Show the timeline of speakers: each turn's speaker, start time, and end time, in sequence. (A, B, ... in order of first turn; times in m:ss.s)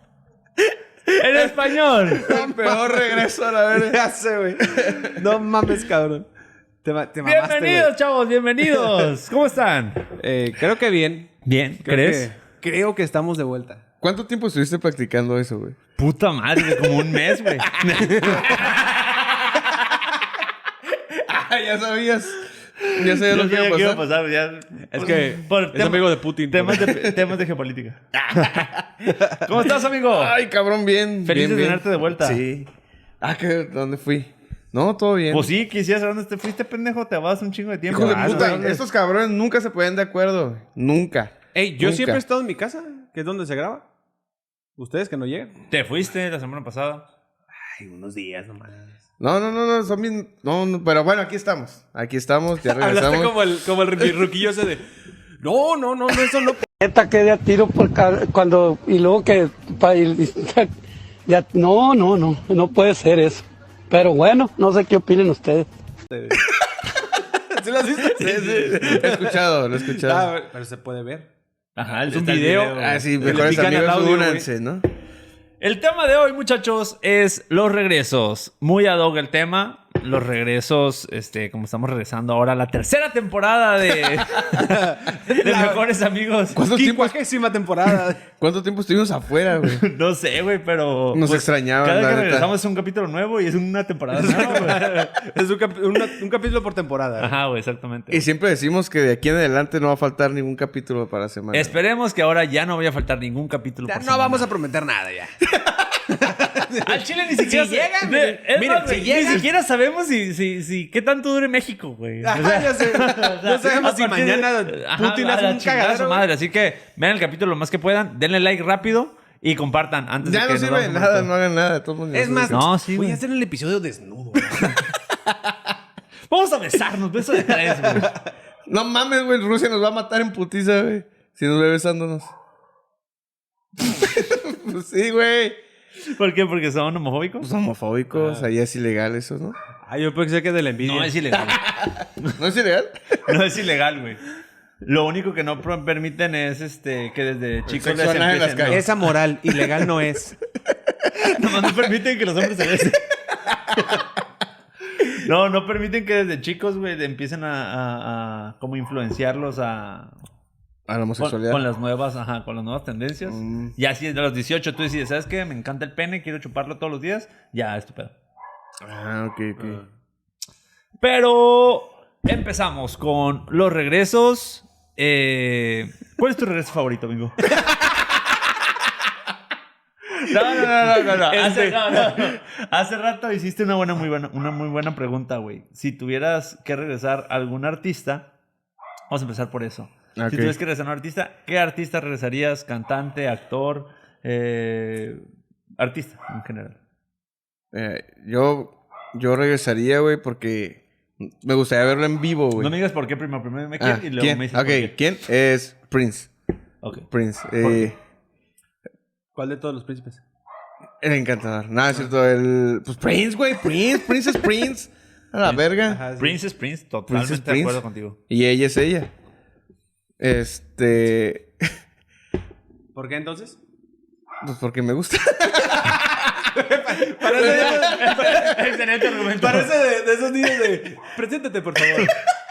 0:01.1-0:02.3 A
0:01.3-0:06.3 B
0:02.2-0:04.0 C
0:04.6-0:05.3 C
0:06.8-0:07.9 B
0:07.2-0:10.0 A
0:08.7-0:09.1 B
0:10.2-0:13.8 B
0:11.4-0:12.3 A
0:14.0-0:15.8 C
0:16.0-0:20.0 A
0:17.8-0:18.5 B
0:21.1-0:24.0 C
0:22.8-0:28.0 A
0:24.9-0:27.1 B
0:28.2-0:29.1 C
0:29.4-0:30.4 A
0:30.1-0:32.7 C
0:31.2-0:32.4 A
0:33.2-0:35.5 C
0:35.3-0:38.6 A
0:37.9-0:42.2 C
0:37.9-0:38.8 B
0:41.6-0:43.8 B
0:44.8-0:45.6 B
0:45.7-0:47.0 A
0:47.6-0:49.0 B
0:49.2-0:53.4 C
0:52.6-0:54.8 B
0:55.4-0:56.7 B
0:56.8-1:00.7 D
1:01.3-1:05.7 D
1:06.1-1:06.5 B
1:07.2-1:11.3 B
1:08.2-1:08.8 A
1:08.6-1:10.3 C
1:11.8-1:13.8 A
1:12.1-1:14.5 B
1:12.7-1:14.8 C
1:15.6-1:26.6 A
1:24.6-1:25.8 B
1:26.6-1:27.2 C
1:26.6-1:28.2 B
1:28.2-1:29.9 C
1:29.6-1:35.1 A
1:31.1-1:32.5 C
1:34.1-1:37.4 B
1:37.2-1:38.3 A
1:38.1-1:41.8 C
1:41.5-1:44.5 A
1:43.9-1:45.5 B
1:46.0-1:49.5 B
1:46.8-2:01.3 A
1:52.2-1:56.3 B
2:00.2-2:02.7 C
2:02.1-2:04.9 B
2:02.5-2:03.2 A
2:06.3-2:08.2 A
2:07.6-2:08.2 B
2:08.7-2:12.3 C
2:13.8-2:15.6 C
2:16.0-2:17.5 A
2:17.4-2:19.6 C
2:18.1-2:18.4 B
2:19.9-2:21.2 B
2:20.8-2:22.4 A
2:21.5-2:23.0 C
2:23.3-2:24.2 A
2:24.8-2:29.0 A
2:27.7-2:28.9 C
2:28.7-2:30.4 B
2:31.2-2:33.0 A
2:33.5-2:34.0 C
2:33.8-2:34.0 A
2:35.0-2:40.2 A
2:40.9-2:41.6 C
2:41.2-2:48.2 A
2:43.2-2:43.8 C
2:48.8-2:49.8 C
2:51.0-2:57.4 A
3:00.2-3:08.3 A
3:00.6-3:02.4 B
3:09.1-3:15.2 A
3:10.2-3:10.6 C
3:15.8-3:16.8 A
3:17.7-3:22.7 C
3:22.6-3:25.0 A
3:23.8-3:26.3 C
3:26.8-3:27.1 A
3:27.1-3:28.0 C
3:27.6-3:27.9 A
3:29.4-3:30.2 B
3:31.0-3:36.0 C
3:35.4-3:38.2 A
3:35.9-3:36.4 B
3:37.1-3:39.1 C
3:40.2-3:41.7 C
3:43.0-3:43.6 B
3:44.4-3:46.5 C
3:46.5-3:48.4 B
3:47.2-3:48.6 C
3:47.3-3:49.7 A
3:49.2-3:52.2 B